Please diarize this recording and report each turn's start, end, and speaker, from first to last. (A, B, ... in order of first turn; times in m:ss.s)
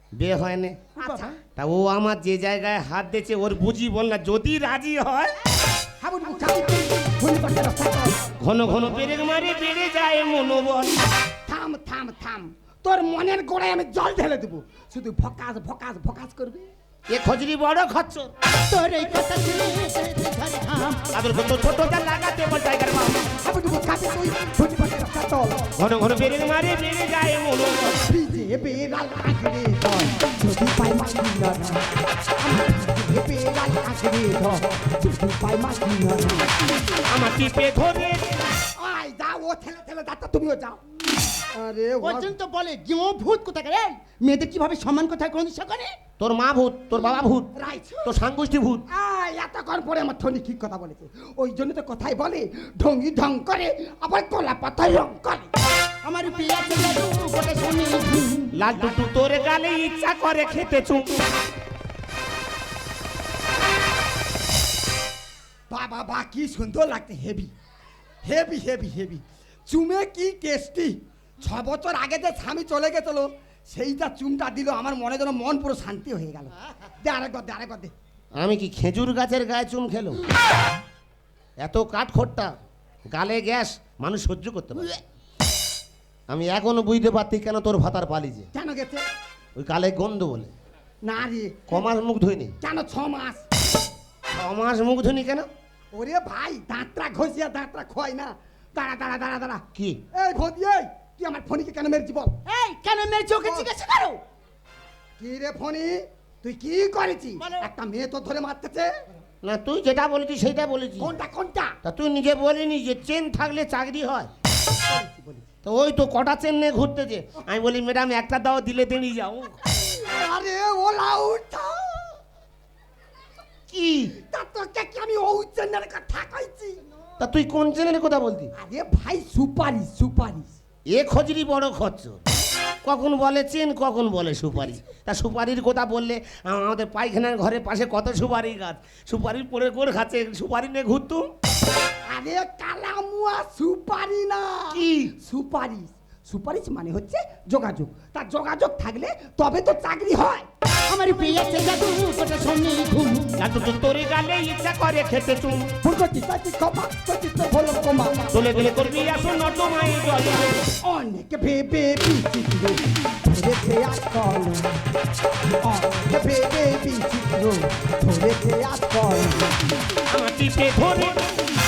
0:00.1-0:00.9 A
0:01.0-0:01.4 B
0:01.0-0:01.3 C
0:01.5-0:05.3 A
0:06.0-0:08.2 C
0:08.4-0:10.9 A
0:11.5-0:16.7 C
0:17.1-0:18.3 A
0:18.7-0:21.0 B
0:21.1-0:23.3 A
0:23.4-0:25.7 C
0:25.8-0:28.0 A
0:27.9-0:31.8 C
0:32.4-0:36.6 C
0:37.1-0:38.5 A
0:38.8-0:40.8 C
0:41.5-0:42.3 C
0:42.0-0:46.0 B
0:46.2-0:47.5 A
0:47.6-0:48.1 C
0:48.0-0:48.8 A
0:48.9-0:55.5 C
0:56.0-0:58.5 B
0:58.5-1:01.2 A
1:05.7-1:07.5 C
1:08.2-1:17.9 C
1:18.4-1:20.2 A
1:21.6-1:22.5 A
1:23.1-1:24.9 A
1:26.3-1:28.5 A
1:28.5-1:29.0 C
1:29.6-1:30.5 A
1:31.0-1:31.8 C
1:31.7-1:32.6 A
1:32.6-1:33.4 C
1:34.3-1:35.5 A
1:35.9-1:42.4 C
1:39.7-1:40.0 A
1:42.4-1:44.2 B
1:43.4-1:43.7 C
1:45.2-1:49.0 C
1:47.4-1:47.7 B
1:49.4-1:51.1 A
1:51.0-1:51.8 C
1:51.8-1:54.3 A
1:54.8-1:55.5 C
1:55.6-1:59.6 A
1:59.8-2:02.2 C
2:03.7-2:04.1 A
2:04.2-2:06.8 C
2:07.2-2:08.5 A
2:08.5-2:10.5 C
2:10.9-2:12.2 A
2:12.8-2:21.3 A
2:22.1-2:30.5 C
2:24.7-2:25.1 A
2:30.9-2:33.4 B
2:33.4-2:35.7 A
2:35.8-2:38.8 C
2:38.3-2:40.7 A
2:40.8-2:44.7 C
2:45.6-2:49.7 C
2:50.1-2:51.4 A